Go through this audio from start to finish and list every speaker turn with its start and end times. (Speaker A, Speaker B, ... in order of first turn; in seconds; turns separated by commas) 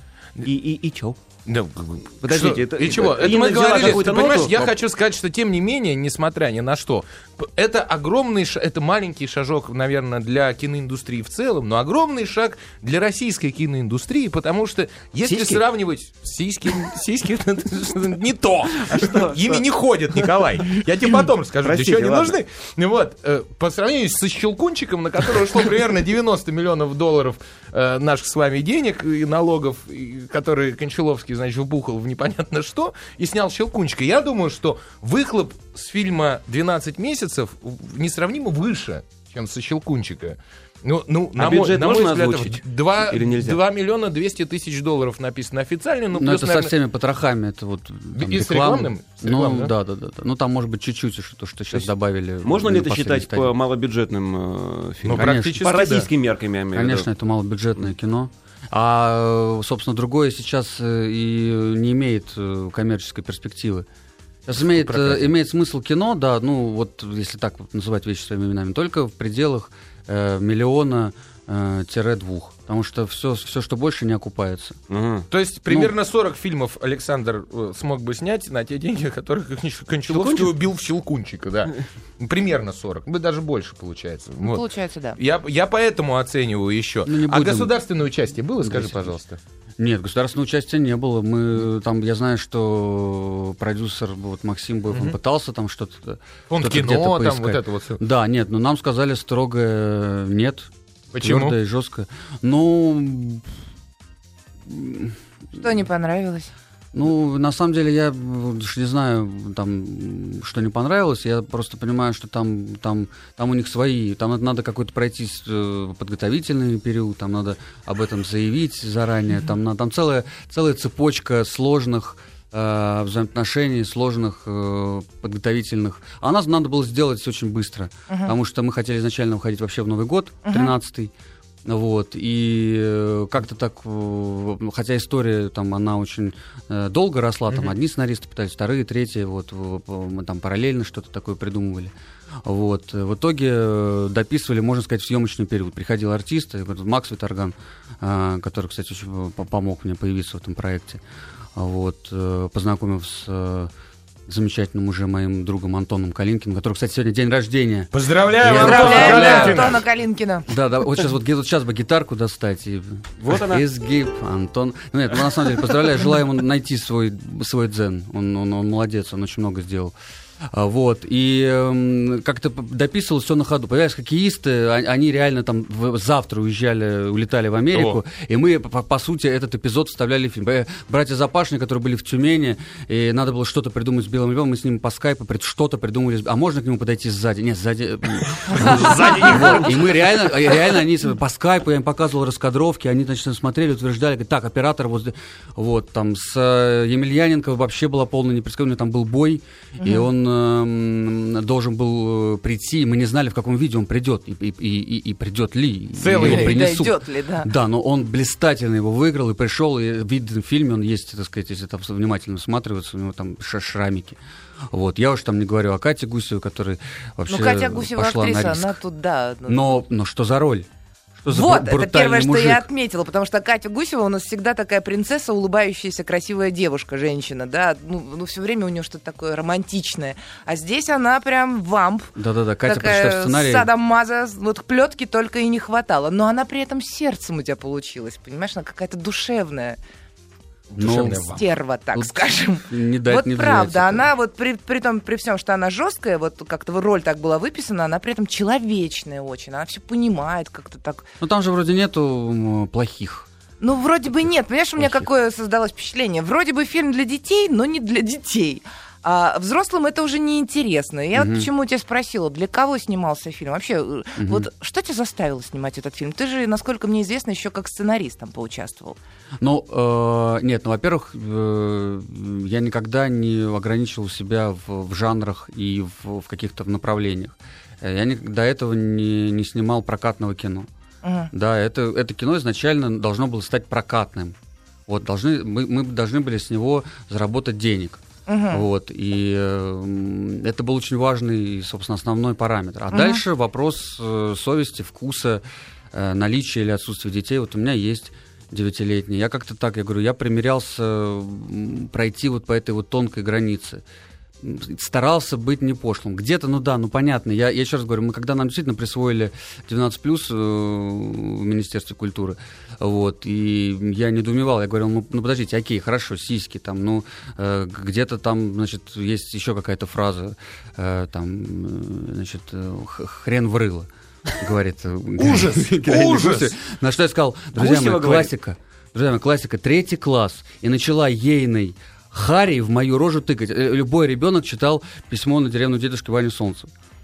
Speaker A: 0.4-1.2, Speaker B: 1.4-46.7, Speaker A: 2.2-4.7, Speaker A: 15.2-15.6, Speaker A: 18.8-19.6, Speaker A: 21.6-22.4, Speaker A: 41.4-43.6, Speaker C: 46.1-53.5, Speaker B: 48.1-49.7, Speaker A: 52.4-57.1, Speaker B: 55.0-56.1, Speaker C: 55.1-55.9, Speaker C: 56.7-63.9, Speaker C: 64.5-74.8, Speaker B: 64.6-65.3, Speaker A: 74.9-75.3, Speaker B: 75.3-84.6, Speaker A: 80.1-80.5, Speaker D: 84.4-85.2, Speaker B: 85.2-89.4, Speaker C: 87.0-87.7, Speaker C: 88.6-89.2, Speaker C: 89.8-103.5, Speaker B: 96.5-98.0, Speaker B: 101.1-101.5, Speaker C: 104.7-105.2, Speaker D: 105.6-106.5, Speaker C: 106.9-131.1, Speaker D: 128.1-128.3, Speaker D: 130.4-130.7, Speaker C: 131.6-141.9, Speaker C: 142.4-151.0, Speaker C: 151.6-153.7, Speaker C: 154.3-159.8, Speaker B: 157.9-159.8, Speaker D: 158.5-160.5, Speaker A: 158.9-159.4, Speaker C: 160.5-169.9, Speaker A: 163.2-163.6, Speaker C: 170.4-214.2, Speaker B: 177.7-178.0, Speaker B: 188.5-189.7, Speaker B: 205.9-206.7, Speaker D: 206.2-207.5, Speaker C: 214.7-218.8, Speaker D: 217.3-219.8, Speaker C: 219.4-222.7, Speaker D: 221.3-232.1, Speaker C: 232.2-233.7, Speaker D: 232.7-239.8, Speaker B: 240.7-241.4, Speaker C: 240.8-241.4, Speaker D: 241.2-251.1, Speaker C: 242.7-244.1, Speaker C: 251.2-253.3, Speaker D: 253.6-269.0, Speaker C: 254.8-255.1, Speaker C: 261.1-261.5, Speaker C: 264.2-264.5, Speaker C: 269.4-280.7, Speaker D: 281.0-281.3, Speaker C: 281.3-284.4, Speaker C: 284.9-295.4, Speaker D: 288.3-288.6, Speaker D: 292.9-293.2, Speaker C: 295.9-303.8, Speaker C: 304.4-336.7, Speaker B: 325.2-326.6, Speaker A: 327.6-328.3